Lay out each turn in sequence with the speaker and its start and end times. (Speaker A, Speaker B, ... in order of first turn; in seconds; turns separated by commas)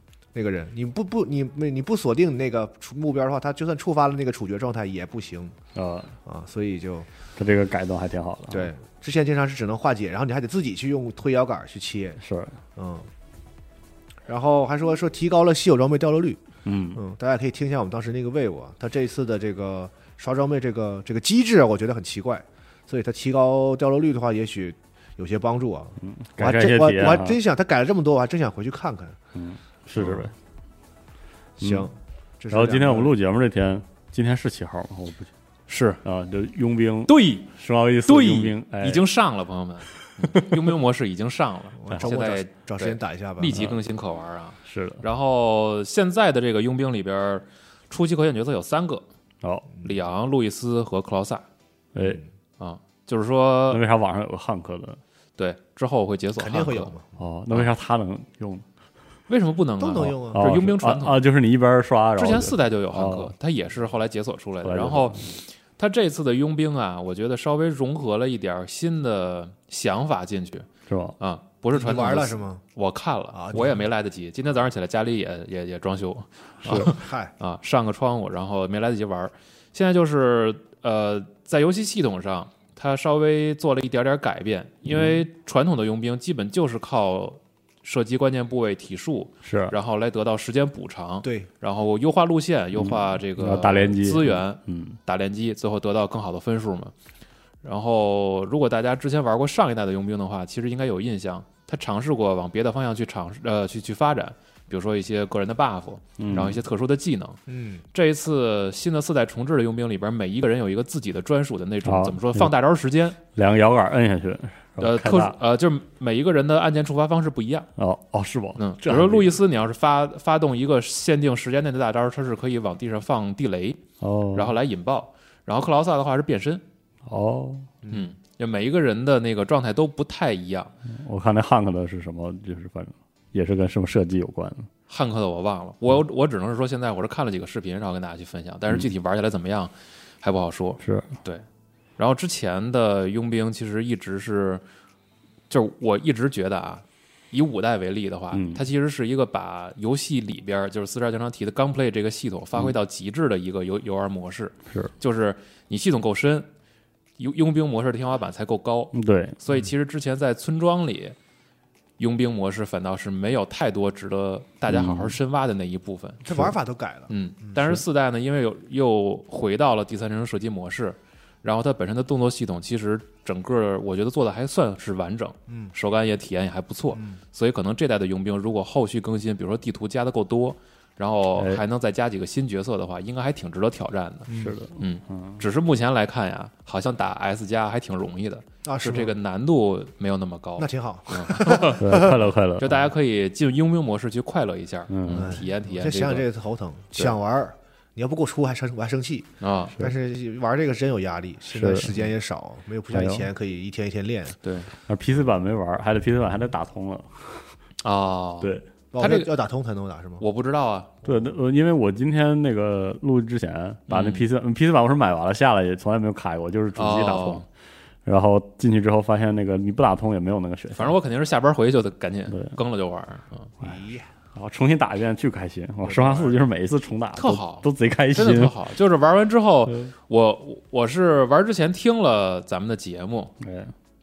Speaker A: 0.3-5.6, Speaker B: 5.8-6.1, Speaker A: 6.3-7.1, Speaker B: 7.4-8.7, Speaker A: 8.5-12.2, Speaker B: 12.2-12.6, Speaker A: 12.8-13.1, Speaker A: 14.3-16.4, Speaker B: 16.7-17.0, Speaker A: 16.9-29.2, Speaker B: 26.0-27.4, Speaker B: 29.4-30.3, Speaker A: 30.0-30.3, Speaker B: 31.6-31.9, Speaker A: 31.6-33.1, Speaker B: 32.5-35.3, Speaker C: 35.7-36.0, Speaker B: 36.0-39.1, Speaker C: 37.1-37.5, Speaker C: 38.1-49.0, Speaker B: 40.3-40.7, Speaker A: 41.8-43.6, Speaker B: 43.5-43.8, Speaker B: 44.6-45.0, Speaker B: 49.4-49.7, Speaker C: 49.8-51.5, Speaker B: 52.0-52.2, Speaker C: 52.6-53.8, Speaker B: 53.7-55.0, Speaker C: 55.4-56.9, Speaker A: 56.4-57.1, Speaker B: 57.2-58.6, Speaker C: 59.3-61.2, Speaker A: 59.8-60.4, Speaker B: 60.3-63.3, Speaker C: 62.2-70.7, Speaker B: 64.6-65.3, Speaker B: 70.9-71.2, Speaker C: 71.2-96.9, Speaker A: 71.7-72.6, Speaker A: 73.3-73.8, Speaker B: 76.6-76.9, Speaker A: 76.7-77.3, Speaker B: 84.9-85.2, Speaker B: 89.4-89.7, Speaker A: 91.2-91.5, Speaker B: 92.8-95.0, Speaker C: 97.6-107.4, Speaker B: 106.2-106.6, Speaker A: 107.5-107.8, Speaker C: 107.9-113.2, Speaker B: 111.8-112.5, Speaker B: 113.3-115.4, Speaker C: 114.8-117.7, Speaker B: 117.8-119.4, Speaker C: 118.6-123.8, Speaker B: 124.0-124.5, Speaker C: 124.3-126.6, Speaker B: 127.1-127.7, Speaker C: 127.9-130.7, Speaker B: 130.9-134.7, Speaker C: 134.9-141.4, Speaker B: 140.8-141.1, Speaker C: 142.0-144.6, Speaker C: 145.5-156.5, Speaker B: 148.3-148.6, Speaker C: 157.2-161.2, Speaker B: 158.9-159.4, Speaker C: 162.0-166.2, Speaker B: 164.7-165.2, Speaker A: 166.2-167.6, Speaker C: 167.1-191.8, Speaker A: 176.9-177.2, Speaker A: 184.3-184.6, Speaker B: 184.3-185.4, Speaker A: 188.6-189.1, Speaker A: 190.6-192.2, Speaker B: 191.8-192.9, Speaker C: 192.6-196.3, Speaker B: 194.9-195.4, Speaker A: 195.1-204.4, Speaker C: 199.4-199.7, Speaker B: 201.5-202.0, Speaker B: 202.9-203.3, Speaker C: 204.4-204.7, Speaker B: 204.9-207.5, Speaker C: 207.8-209.3, Speaker B: 208.4-208.7, Speaker A: 208.9-210.2, Speaker C: 210.2-210.9, Speaker B: 211.1-217.5, Speaker C: 213.9-214.3, Speaker C: 216.8-217.4, Speaker B: 218.1-221.0, Speaker C: 220.7-223.5, Speaker A: 223.6-224.1, Speaker B: 224.3-228.6, Speaker A: 225.8-226.4, Speaker C: 227.2-233.3, Speaker B: 233.4-233.7